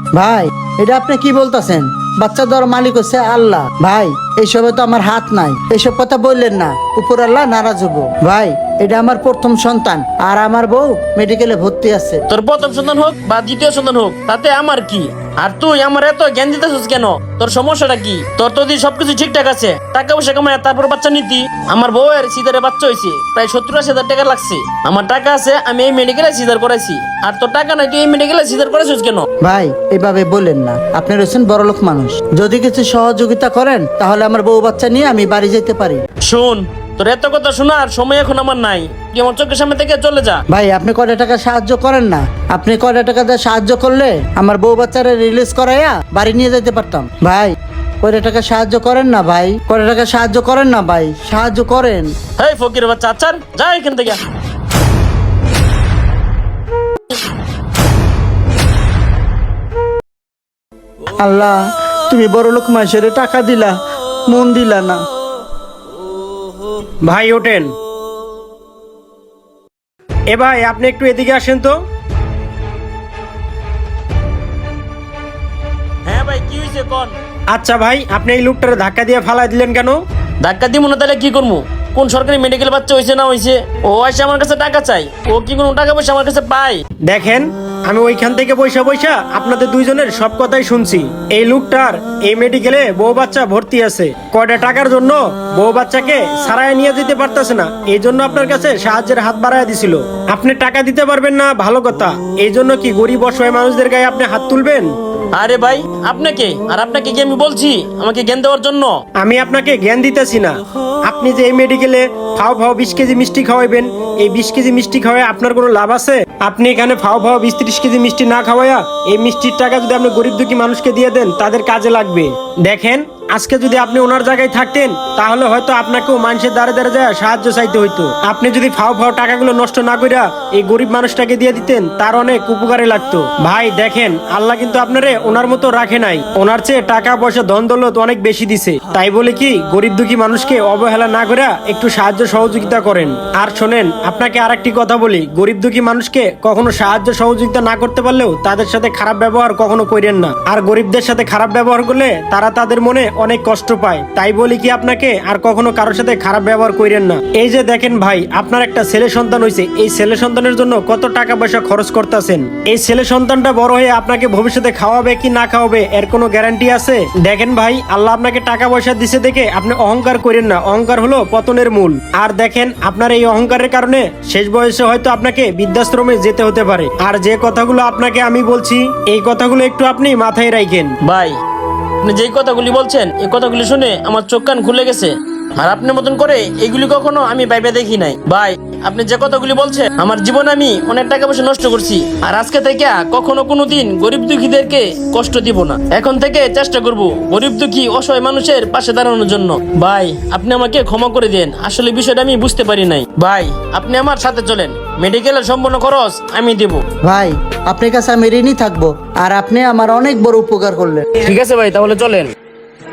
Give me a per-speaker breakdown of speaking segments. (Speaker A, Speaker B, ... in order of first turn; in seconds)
Speaker A: 0.1-12.2, 29.4-36.0, 40.5-52.1, 61.2-63.8, 64.3-65.0, 207.0-211.1
Speaker B: 12.3-29.2, 36.3-40.4, 52.4-54.2, 76.0-77.1, 80.4-86.8, 105.3-108.9, 181.0-181.3, 182.0-206.8, 211.2-212.3
Speaker C: 67.0-67.7, 70.3-71.7, 77.5-80.0, 87.0-104.9, 109.2-180.9